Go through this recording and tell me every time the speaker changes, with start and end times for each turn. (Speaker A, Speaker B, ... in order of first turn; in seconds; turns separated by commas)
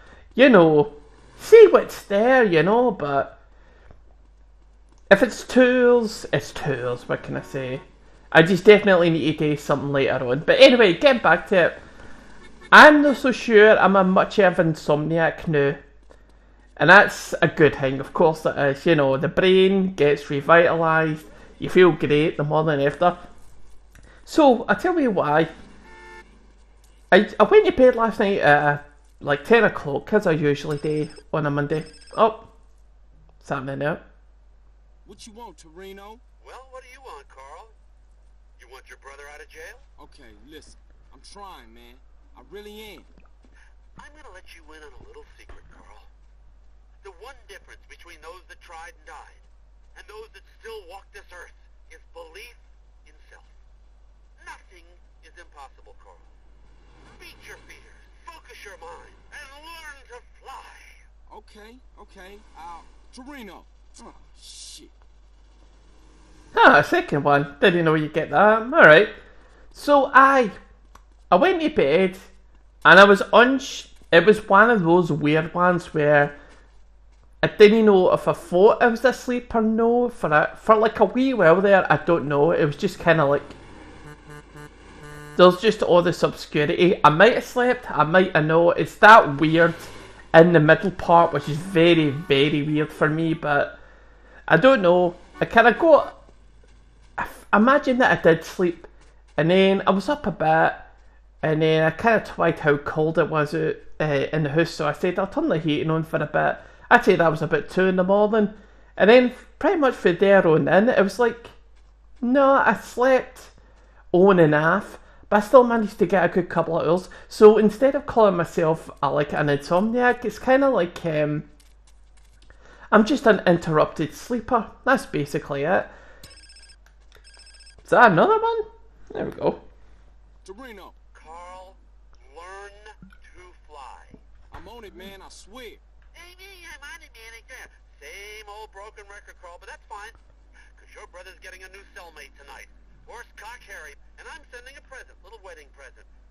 Speaker A: 0.3-3.4, Speaker A: 5.1-11.8, Speaker A: 12.7-15.8, Speaker A: 16.8-23.3, Speaker A: 24.3-25.5, Speaker A: 27.1-32.5, Speaker A: 33.4-34.0, Speaker B: 35.0-36.2, Speaker C: 36.4-37.8, Speaker C: 38.6-39.9, Speaker B: 40.0-43.1, Speaker C: 44.0-46.1, Speaker C: 47.0-53.5, Speaker C: 54.4-56.3, Speaker C: 57.1-61.1, Speaker B: 61.3-64.9, Speaker A: 66.5-69.1, Speaker A: 69.7-70.6, Speaker A: 71.3-72.3, Speaker A: 72.8-76.4, Speaker A: 77.4-83.6, Speaker A: 85.4-89.8, Speaker A: 90.3-93.8, Speaker A: 94.5-96.2, Speaker A: 97.2-100.9, Speaker A: 101.4-111.5, Speaker A: 112.2-113.5, Speaker A: 114.1-121.5, Speaker A: 122.9-125.9, Speaker A: 127.8-129.6, Speaker B: 130.4-131.0, Speaker C: 131.1-134.2, Speaker B: 134.5-135.8, Speaker C: 136.1-140.2, Speaker C: 140.8-146.1